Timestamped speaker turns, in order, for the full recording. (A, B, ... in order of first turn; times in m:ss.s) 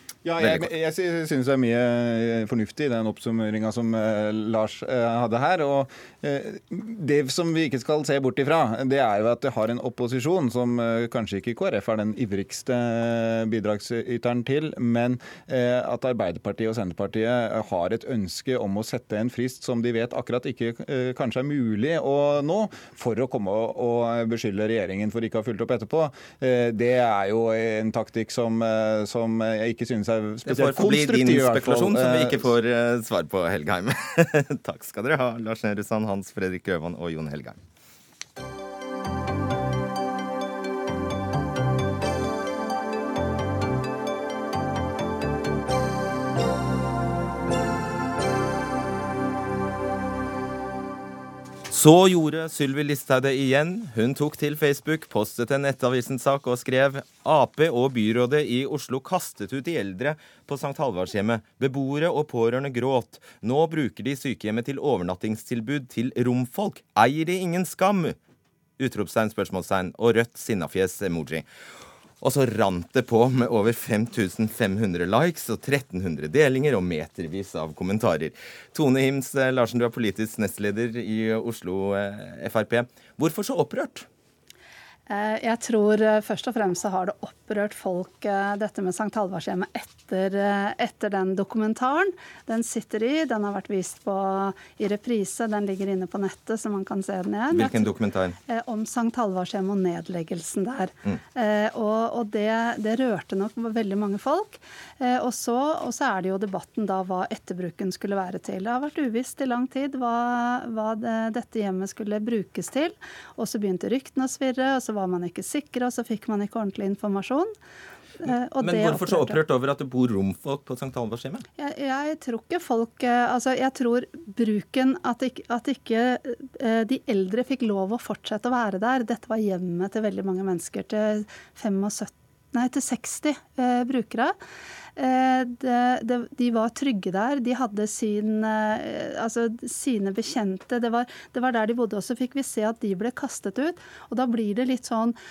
0:00.2-0:32.5 A
0:00.4-0:00.7 B
0:30.4-0:37.6 B
0:51.7-1:08.2 B
1:08.8-1:11.4 B
1:12.2-1:24.1 B
1:25.1-1:37.9 C
1:37.5-1:38.4 B
1:38.5-1:57.5 C
1:58.2-1:59.4 C
1:58.6-2:01.4 B
2:01.6-2:14.4 C
2:15.0-2:25.2 C